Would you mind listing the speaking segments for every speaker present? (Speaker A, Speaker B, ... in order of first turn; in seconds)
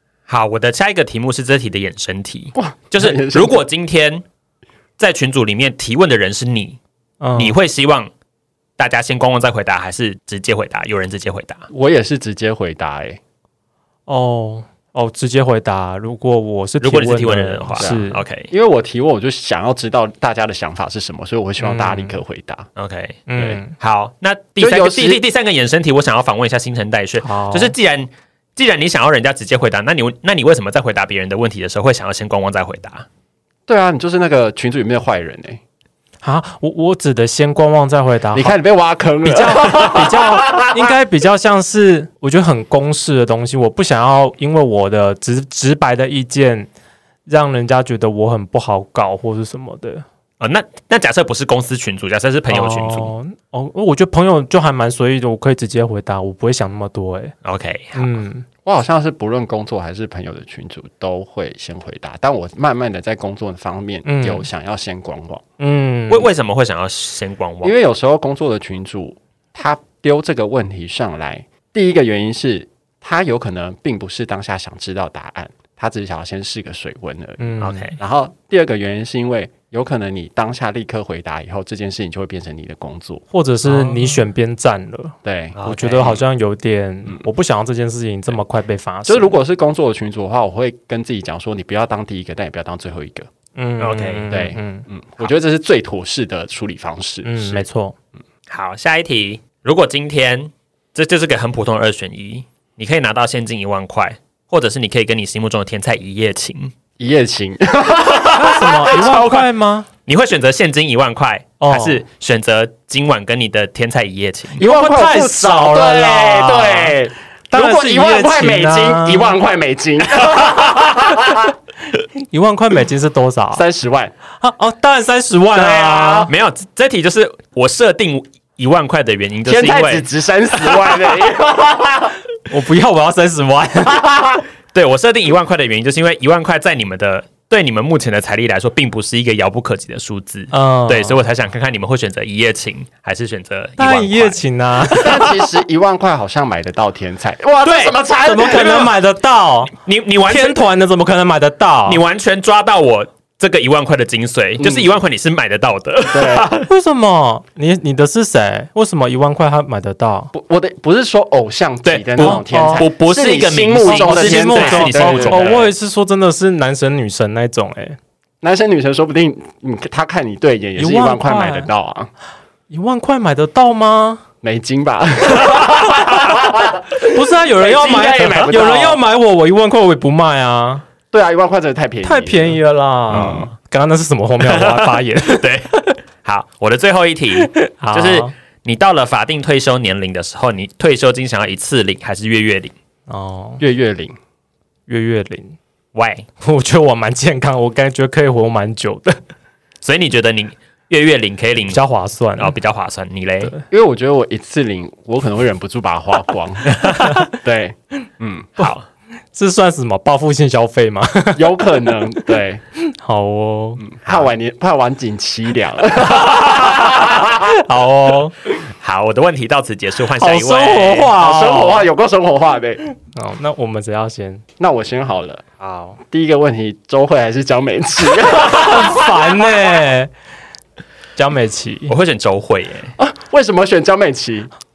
Speaker A: 0.3-4.2, 5.0-6.8, 7.3-8.1, 8.8-11.7, 16.8-18.5, 22.8-33.0, 50.4-53.1, 57.4-58.2, 66.1-67.8, 77.6-78.0, 83.7-84.0, 85.5-86.2, 93.8-94.4, 98.5-106.7, 108.0-109.5, 110.1-114.6, 126.3-130.0, 130.6-131.0, 134.7-145.3, 147.6-147.9, 149.7-150.6, 151.8-156.7, 161.8-165.7, 178.2-178.5, 183.1-183.4, 184.4-192.7, 195.9-196.2, 199.8-201.8, 202.3-203.5, 206.7-207.1, 208.6-208.8, 218.8-221.1, 231.9-232.9
Speaker B: 2.5-3.6, 11.7-13.2, 17.8-22.7, 24.6-25.2, 33.7-35.6, 38.3-40.9, 58.6-65.4, 67.6-83.2, 85.2-86.2, 89.0-93.3, 94.3-97.6, 107.0-109.3, 114.5-121.5, 123.5-124.1, 125.5-126.3, 129.4-132.2, 133.9-134.4, 144.9-148.9, 154.6-154.9, 156.1-156.5, 160.3-165.7, 168.4-172.1, 174.4-179.0, 181.1-183.5, 193.6-194.2, 203.7-208.5, 211.3-212.6, 213.8-217.5, 221.1-222.8, 224.6-225.4, 226.0-229.5, 233.0-234.5
Speaker C: 7.2-7.6, 14.1-18.2, 21.6-22.2, 23.3-23.7, 27.2-27.7, 36.2-38.6, 39.2-46.7, 47.3-50.0, 52.5-57.4, 57.9-58.5, 64.0-64.5, 65.6-66.3, 77.4-77.9, 83.3-89.3, 93.5-94.9, 97.2-98.0, 108.3-109.9, 111.6-112.0, 114.6-117.0, 117.5-119.4, 122.2-123.6, 124.4-126.3, 132.5-134.0, 140.5-141.2, 143.8-145.3, 148.2-149.7, 150.2-152.0, 156.7-160.3, 162.2-162.8, 163.8-168.0, 170.8-171.7, 172.7-174.2, 177.1-180.8, 182.0-185.9, 187.4-188.3, 193.1-193.6, 194.9-195.6, 196.4-199.2, 201.7-202.5, 206.9-207.3, 209.3-214.2, 217.3-218.3, 220.2-221.8, 223.1-224.4, 225.6-226.0, 228.4-230.1, 231.2-231.9